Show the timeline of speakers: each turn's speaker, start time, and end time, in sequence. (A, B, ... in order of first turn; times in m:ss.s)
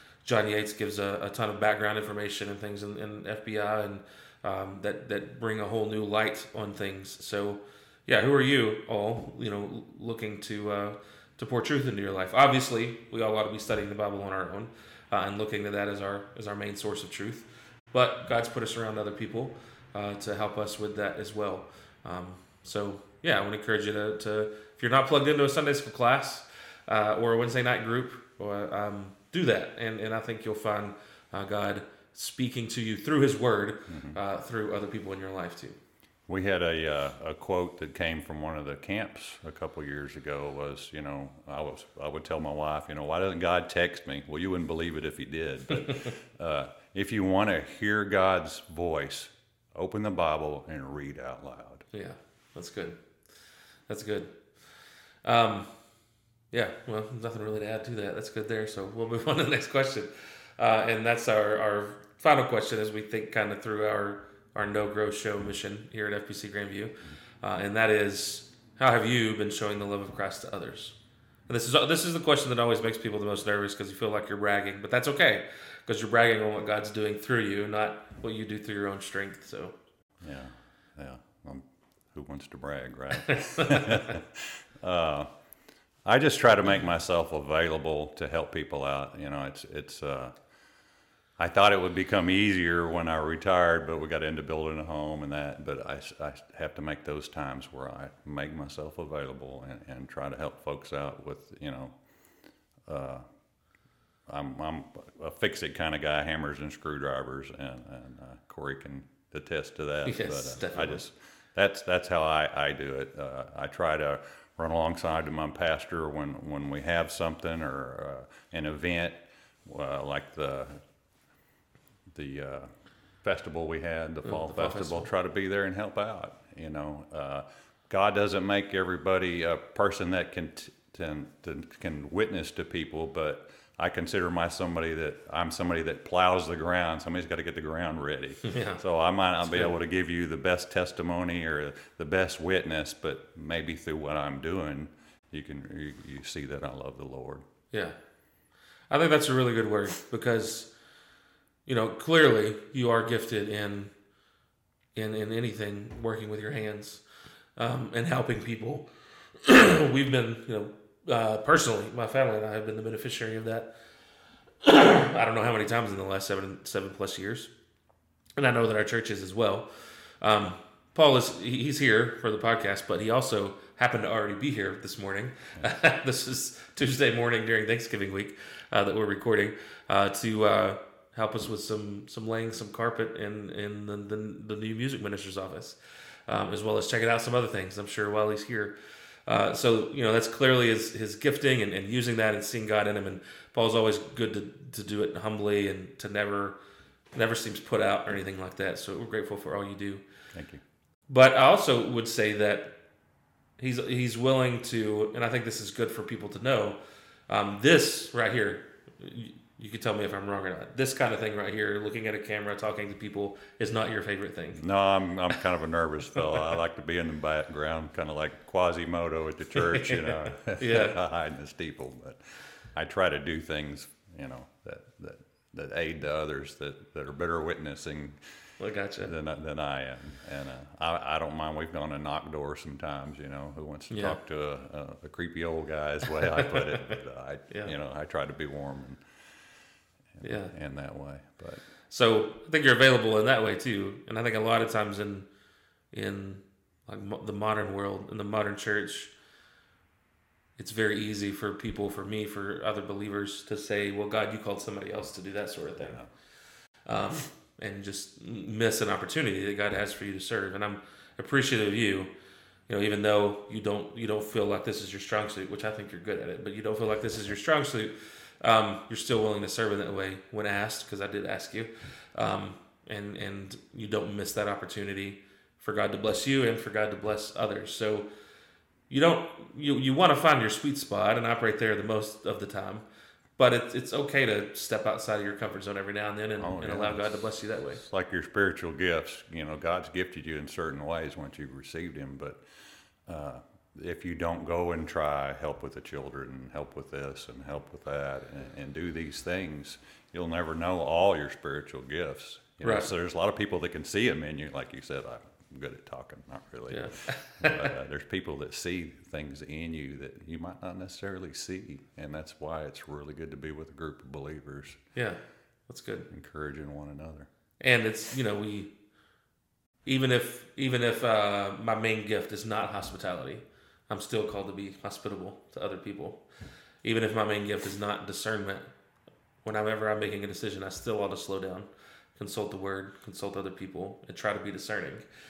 0:00.2-0:35.8 A
0:33.9-0:34.2 B
0:36.3-0:51.8 B
0:51.9-0:53.0 A
0:53.9-0:54.4 A
0:55.2-0:55.7 A
0:56.5-1:11.0 A
1:11.5-1:19.7 A
1:20.2-1:25.3 B
1:23.2-1:24.1 A
1:26.0-1:30.3 B
1:31.4-1:41.9 B
1:42.9-1:43.2 B
1:44.3-2:00.8 B
1:50.0-1:51.0 A
2:02.1-2:02.7 B
2:03.2-2:27.4 B
2:04.2-2:05.1 A
2:18.4-2:18.8 A
2:19.4-2:19.7 A
2:28.9-2:30.7 A
2:31.6-2:33.9 A
2:34.9-2:37.0 A
2:37.6-2:38.9 A
2:39.4-2:43.7 A
2:44.6-2:47.5 A
2:48.4-2:49.7 A
2:50.2-3:08.7 A
3:09.3-3:16.6 A
3:17.1-3:20.0 A
3:20.3-3:20.6 B
3:21.1-3:22.8 A
3:23.6-3:26.8 A
3:27.3-3:34.6 A
3:34.6-3:42.2 B
3:39.6-3:41.0 A
3:42.7-3:48.2 B
3:48.6-3:49.1 A
3:49.0-3:59.0 B
3:53.9-3:54.2 A
3:56.2-3:56.9 A
4:00.2-4:01.6 B
4:00.2-4:00.5 A
4:01.9-4:05.3 A
4:05.9-4:09.1 A
4:10.6-4:16.0 A
4:15.8-4:16.1 B
4:16.8-4:22.1 A
4:22.7-4:38.1 A
4:38.9-4:42.8 A
4:43.4-4:47.8 A
4:46.4-4:47.2 B
4:47.7-4:52.4 B
4:53.1-5:14.8 B
5:02.6-5:02.9 A
5:06.7-5:07.7 A
5:14.9-5:16.1 A
5:16.1-5:17.3 B
5:17.6-5:18.7 A
5:19.8-5:26.2 A
5:26.8-5:28.6 A
5:29.4-5:35.0 A